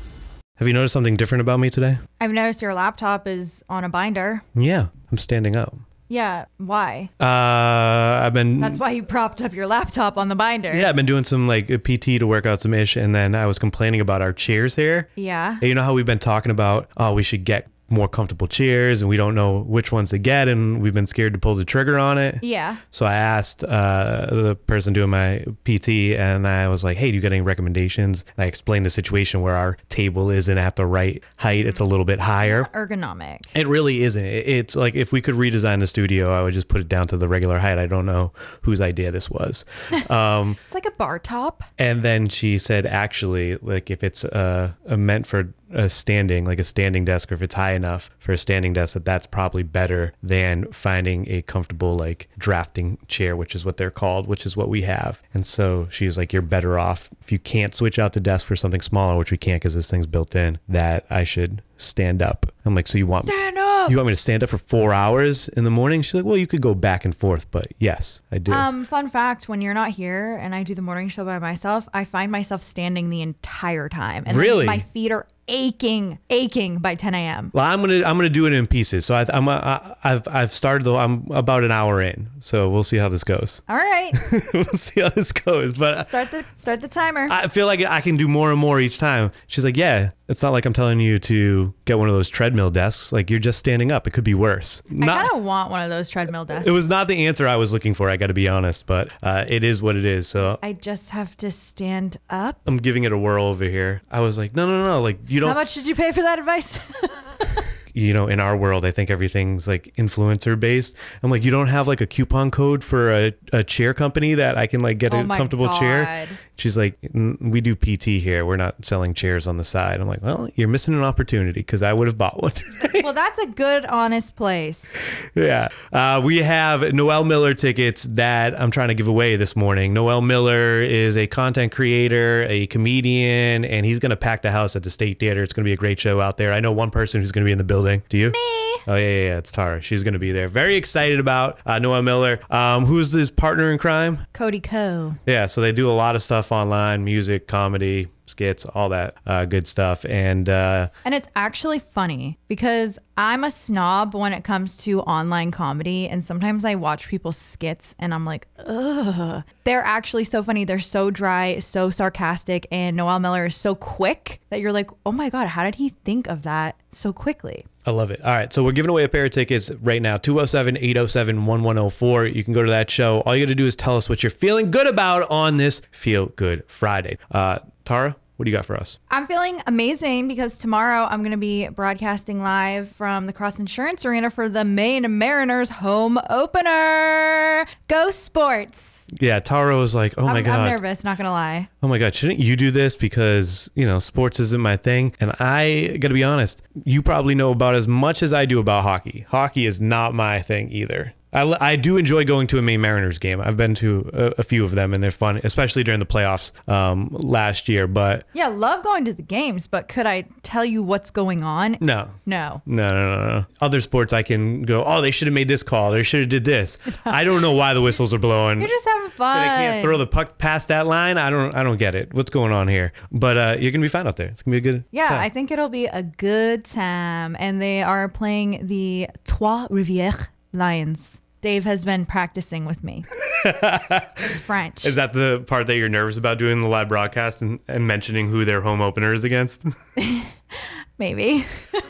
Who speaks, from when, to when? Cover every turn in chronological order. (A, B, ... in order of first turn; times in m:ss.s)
0:00.6-0:02.0 A
0:02.2-0:04.4 B
0:04.5-0:05.8 A
0:06.1-0:07.1 B
0:07.2-0:08.8 A
0:08.6-0:10.9 B
0:10.7-0:32.7 A
0:15.2-0:15.6 B
0:22.4-0:22.8 B
0:32.4-0:33.5 B
0:33.5-0:40.6 A
0:40.6-0:41.6 B
0:41.8-1:08.7 A
1:03.2-1:04.0 B
1:08.5-1:17.5 B
1:14.3-1:14.8 A
1:17.5-1:26.1 A
1:23.7-1:24.2 B
1:26.0-1:27.3 B
1:27.3-1:35.3 A
1:35.0-1:36.7 B
1:36.5-1:40.6 A
1:40.6-1:42.6 B
1:42.6-1:45.6 A
1:45.4-1:47.6 B
1:47.9-2:03.1 A
1:55.1-1:56.4 B
2:03.0-2:05.0 B
2:05.2-2:24.2 A
2:18.3-2:18.8 B
2:24.3-2:25.2 B
2:25.2-2:30.9 A
2:31.0-2:47.6 B
2:47.8-2:59.0 A
2:59.1-3:09.1 B
3:09.1-3:10.8 A
3:10.2-3:11.7 B
3:11.8-3:28.2 A
3:28.3-3:32.6 B
3:31.8-3:38.7 A
3:38.6-3:40.0 B
3:39.3-3:45.3 A
3:44.9-3:53.1 B
3:53.2-3:59.7 A
3:54.2-3:54.9 B
4:00.0-4:01.5 B